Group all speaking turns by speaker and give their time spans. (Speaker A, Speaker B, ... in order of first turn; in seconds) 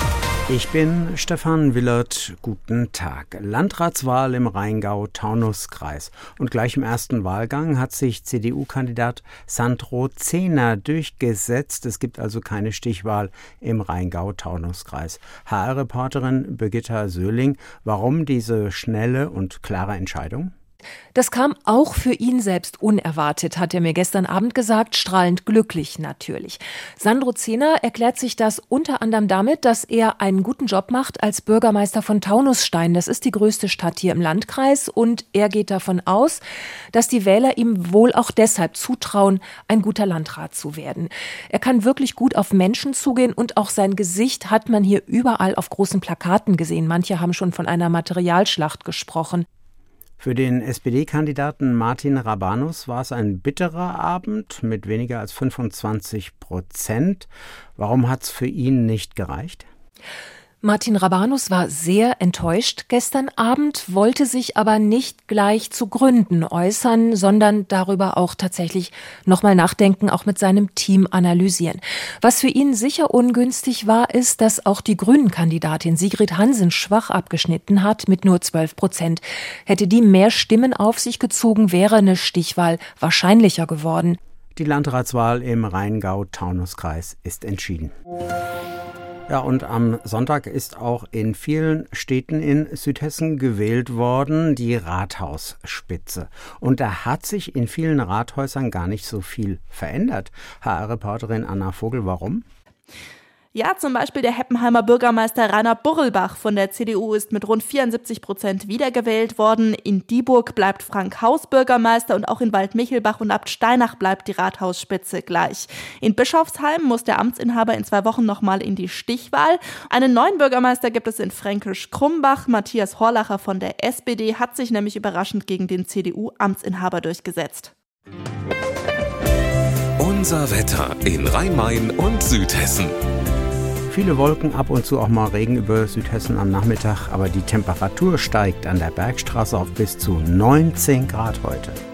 Speaker A: 0.5-20.5, 50.2-59.6, 84.5-87.9, 89.3-102.4, 133.9-141.8
Speaker B: 21.1-36.4, 36.9-49.5, 60.6-84.2
Speaker C: 103.5-127.7
Speaker D: 130.0-132.9